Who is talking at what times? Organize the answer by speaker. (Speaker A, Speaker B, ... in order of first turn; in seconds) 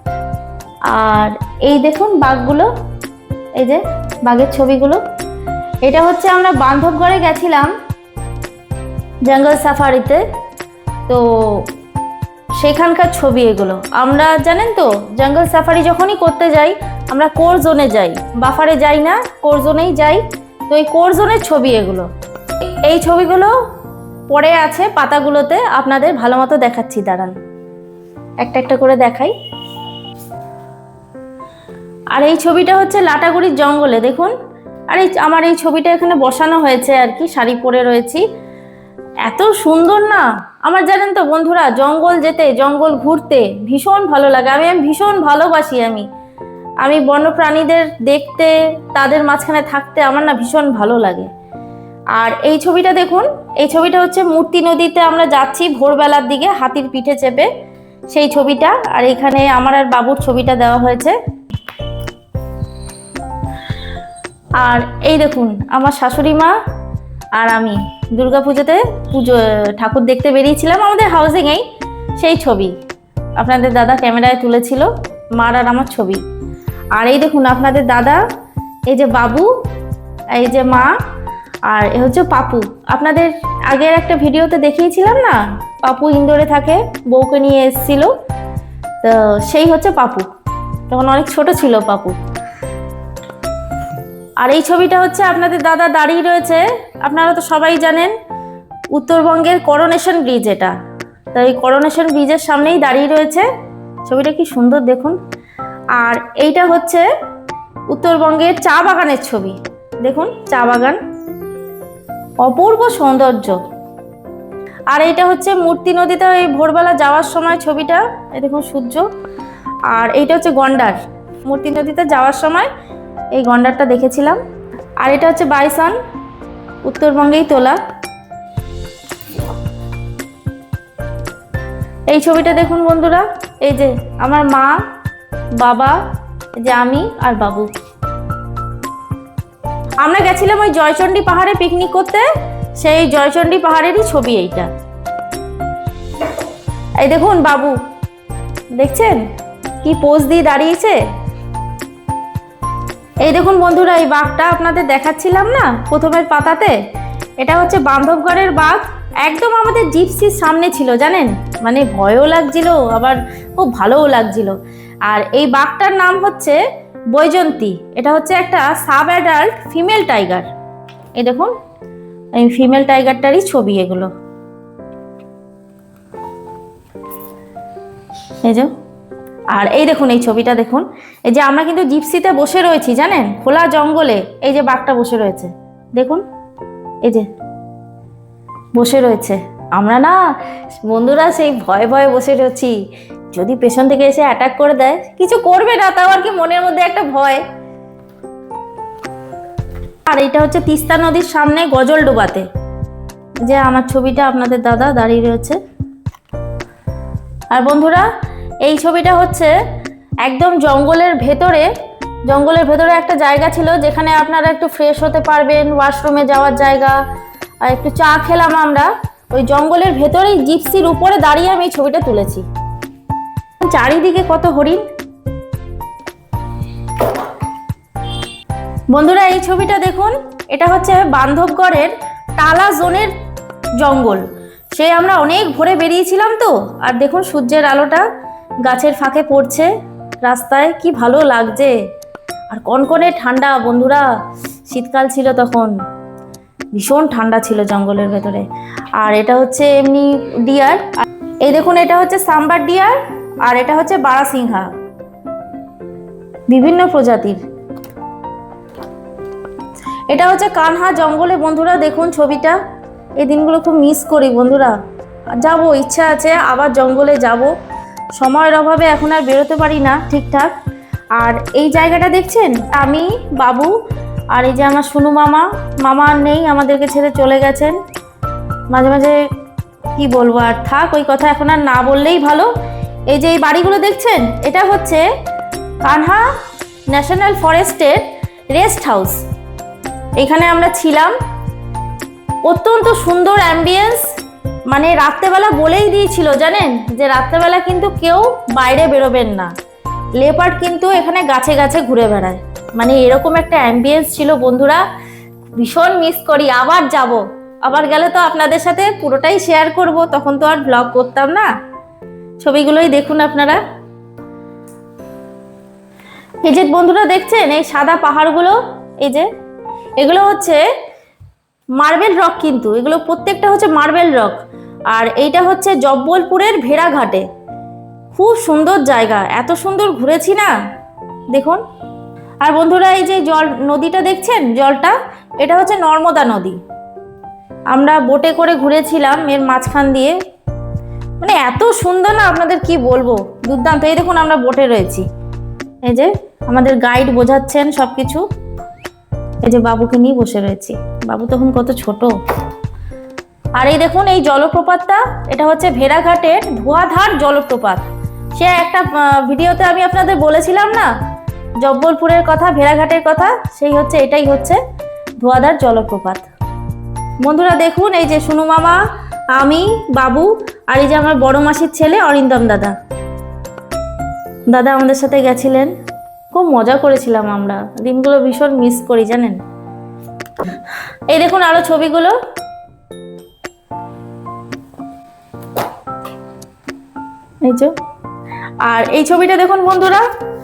Speaker A: 0.9-2.7, 3.5-5.0, 5.8-7.7, 9.2-10.2, 11.1-11.7, 12.6-22.1, 22.8-23.5, 24.3-27.3, 28.4-29.3, 32.1-34.3, 34.9-38.2, 39.2-46.1, 46.8-51.3, 52.1-57.5, 58.1-61.2, 64.6-66.5, 67.3-71.6, 72.2-72.8, 73.4-76.2, 76.9-78.2, 78.9-79.5, 80.3-80.9, 81.7-88.1, 89.0-90.3, 90.9-92.2, 94.4-98.1, 98.9-100.7, 101.3-103.5, 104.0-105.2, 106.0-107.1, 107.9-111.0, 112.4-113.6, 114.9-119.1, 119.9-122.7, 123.3-124.4, 125.0-126.0, 126.8-127.8, 132.1-134.8, 135.6-136.0, 136.6-137.7, 140.0-144.7, 147.0-147.8, 148.7-149.2, 149.8-151.0, 153.2-156.8, 157.4-166.6, 167.1-170.5, 171.2-171.5, 172.3-174.1, 178.4-178.7, 179.5-186.2, 188.7-190.2, 190.8-192.8, 193.3-197.4, 200.1-202.5, 203.4-205.6, 207.5-208.1, 208.6-209.5, 210.2-211.7, 212.3-217.0, 217.6-222.4, 223.6-224.8, 228.9-233.1, 233.8-238.1, 238.6-239.7, 240.2-241.7, 242.5-244.1, 244.7-245.7, 246.7-248.4, 249.0-254.7, 256.5-257.4, 260.1-262.6, 263.2-264.8, 265.3-267.5, 268.1-270.5, 271.2-273.7, 274.3-277.8, 278.7-279.2, 279.9-282.5, 283.1-285.1, 285.8-286.3, 286.9-289.2, 290.2-291.1, 292.4-294.0, 294.7-299.5, 300.2-304.8, 305.6-311.5, 312.4-313.6, 316.4-319.3, 320.0-320.6, 321.8-324.4, 324.9-327.2, 328.1-330.5, 331.3-331.6, 332.4-336.6, 337.7-340.2, 341.2-345.1, 345.8-348.2, 349.4-352.1, 353.6-360.9, 361.6-364.6, 365.2-366.2, 367.2-372.8, 374.5-375.7, 376.3-379.4, 381.1-382.2, 387.4-387.7, 388.6-390.1